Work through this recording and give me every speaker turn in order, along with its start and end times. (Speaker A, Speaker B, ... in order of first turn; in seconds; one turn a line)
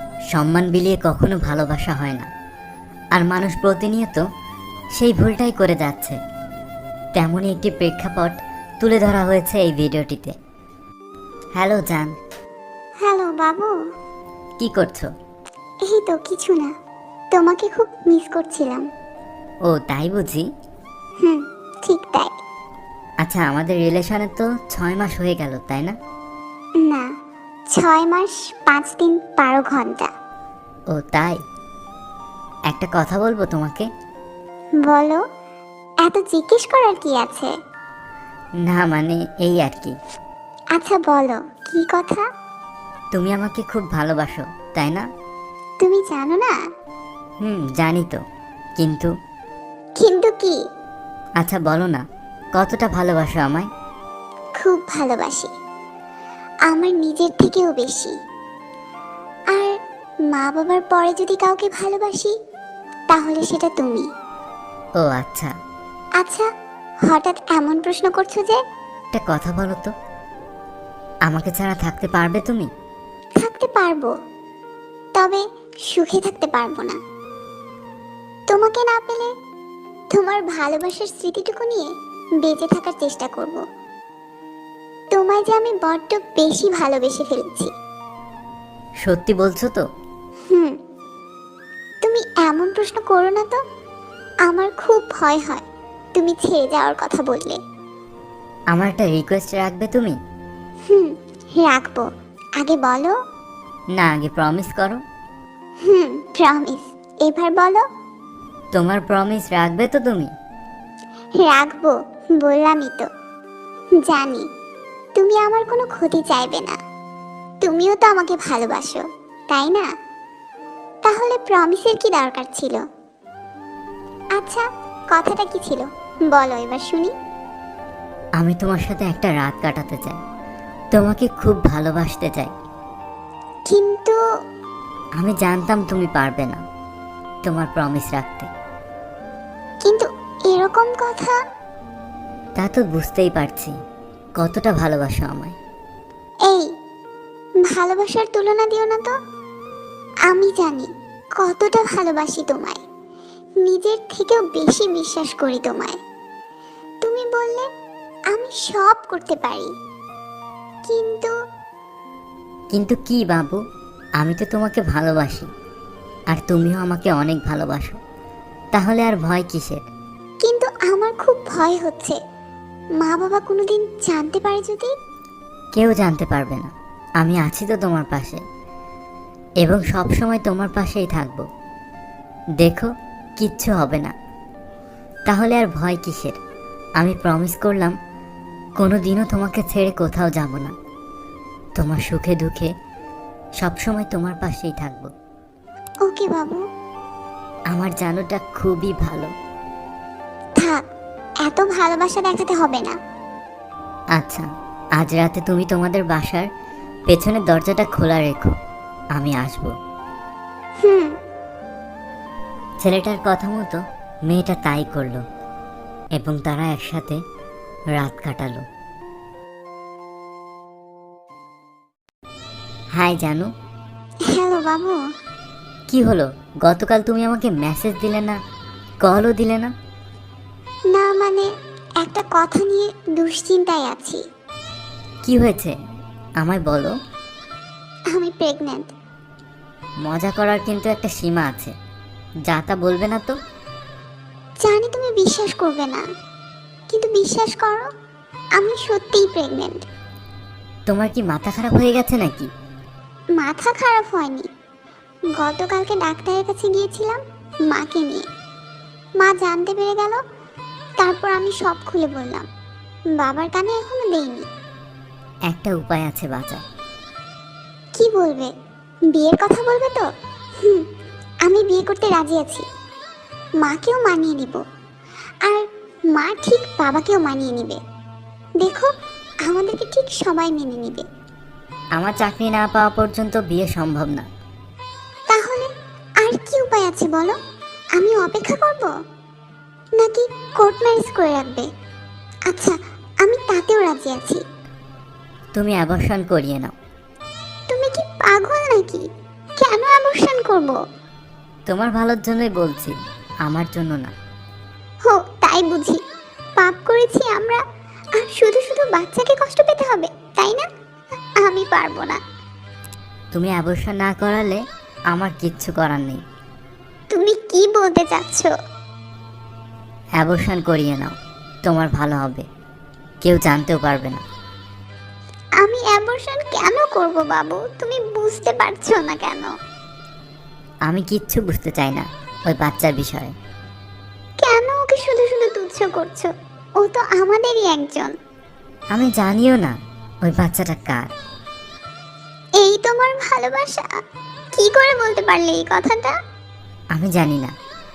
Speaker A: 0.3-2.3
Speaker A: 3.1-4.3
Speaker A: 5.0-6.2
Speaker A: 7.2-10.3
Speaker A: 11.6-12.1
Speaker B: 13.0-13.7
Speaker A: 14.6-15.1
Speaker B: 15.8-16.7
Speaker B: 17.3-18.9
Speaker A: 19.7-20.5
Speaker B: 21.2-22.3
Speaker A: 23.2-26.0
Speaker B: 26.8-27.1
Speaker B: 27.7-30.1
Speaker A: 30.9-31.4
Speaker A: 32.7-33.9
Speaker B: 34.9-35.2
Speaker B: 36.0-37.5
Speaker A: 38.6-40.0
Speaker B: 40.8-42.2
Speaker A: 43.1-45.1
Speaker B: 45.8-46.5
Speaker A: 47.4-48.2
Speaker A: 48.8-49.1
Speaker B: 50.0-50.6
Speaker A: 51.4-52.0
Speaker A: 52.5-53.7
Speaker B: 54.6-55.5
Speaker B: 56.7-58.2
Speaker B: 60.3-62.3
Speaker B: 63.1-64.1
Speaker A: 65.0-65.5
Speaker B: 66.2-66.5
Speaker B: 67.1-68.6
Speaker A: 69.1-69.9
Speaker A: 71.3-72.7
Speaker B: 73.4-74.1
Speaker B: 75.2-77.0
Speaker B: 78.5-79.3
Speaker B: 80.1-81.9
Speaker B: 82.4-83.6
Speaker B: 85.1-87.7
Speaker A: 89.0-89.8
Speaker B: 90.5-90.8
Speaker B: 92.0-93.6
Speaker B: 94.5-95.7
Speaker B: 96.2-97.6
Speaker A: 98.7-100.2
Speaker B: 100.9-102.1
Speaker B: 102.6-103.2
Speaker A: 104.0-105.0
Speaker B: 105.8-107.8
Speaker A: 108.7-110.3
Speaker B: 111.4-113.1
Speaker B: 114.0-114.5
Speaker B: 115.2-116.8
Speaker B: 117.6-119.9
Speaker B: 121.0-122.8
Speaker B: 124.3-127.1
Speaker A: 128.4-130.2
Speaker A: 130.9-132.5
Speaker B: 133.7-134.2
Speaker A: 135.2-136.6
Speaker A: 137.4-138.5
Speaker B: 139.8-141.4
Speaker A: 142.6-143.7
Speaker A: 144.4-145.6
Speaker B: 147.7-149.1
Speaker B: 150.3-152.8
Speaker B: 153.6-156.0
Speaker B: 157.0-157.7
Speaker B: 158.3-159.7
Speaker B: 160.9-161.3
Speaker A: 162.7-163.6
Speaker A: 164.2-165.5
Speaker A: 166.3-168.0
Speaker A: 168.7-169.8
Speaker B: 170.4-172.2
Speaker B: 173.0-174.9
Speaker A: 175.7-178.4
Speaker A: 179.6-181.5
Speaker A: 182.6-184.2
Speaker A: 185.3-186.4
Speaker A: 187.0-188.0
Speaker A: 188.8-190.7
Speaker A: 191.8-192.7
Speaker A: 193.6-195.1
Speaker B: 196.1-196.6
Speaker A: 197.7-199.3
Speaker B: 201.4-203.0
Speaker A: 204.1-206.5
Speaker A: 207.1-208.5
Speaker A: 209.2-209.7
Speaker B: 210.8-211.2
Speaker A: 212.8-215.2
Speaker A: 216.2-217.2
Speaker A: 217.9-218.7
Speaker A: 223.0-223.5
Speaker B: 224.3-225.0
Speaker A: 225.9-228.4
Speaker A: 229.0-229.7
Speaker B: 230.9-234.2
Speaker A: 235.2-235.8
Speaker A: 236.4-236.9
Speaker B: 238.1-238.9
Speaker A: 240.0-241.8
Speaker A: 242.5-243.4
Speaker B: 244.6-246.0
Speaker B: 246.9-247.9
Speaker B: 248.6-249.9
Speaker A: 250.9-252.5
Speaker B: 253.4-254.5
Speaker B: 255.4-258.3
Speaker B: 259.2-260.2
Speaker B: 261.0-262.5
Speaker B: 263.2-264.5
Speaker A: 265.5-266.6
Speaker B: 268.0-268.5
Speaker B: 269.1-270.1
Speaker B: 270.6-270.9
Speaker B: 271.4-272.7
Speaker B: 273.6-274.6
Speaker B: 275.4-277.8
Speaker B: 278.6-278.9
Speaker B: 279.5-281.1
Speaker A: 281.9-284.3
Speaker B: 285.3-285.7
Speaker B: 286.2-287.4
Speaker B: 288.0-288.9
Speaker B: 290.0-291.7
Speaker B: 292.5-294.4
Speaker A: 295.5-296.7
Speaker B: 297.7-299.1
Speaker B: 299.6-300.8
Speaker A: 301.7-304.1
Speaker B: 305.1-306.0
Speaker B: 306.6-307.6
Speaker B: 308.2-310.7
Speaker B: 311.4-312.2
Speaker A: 313.3-316.2
Speaker B: 317.1-318.5
Speaker A: 320.2-321.1
Speaker A: 321.6-322.5
Speaker A: 323.2-324.2
Speaker B: 325.6-329.5
Speaker A: 330.9-333.4
Speaker B: 334.4-338.1
Speaker A: 338.9-341.1
Speaker B: 342.6-343.9
Speaker B: 344.6-346.1
Speaker A: 346.9-347.5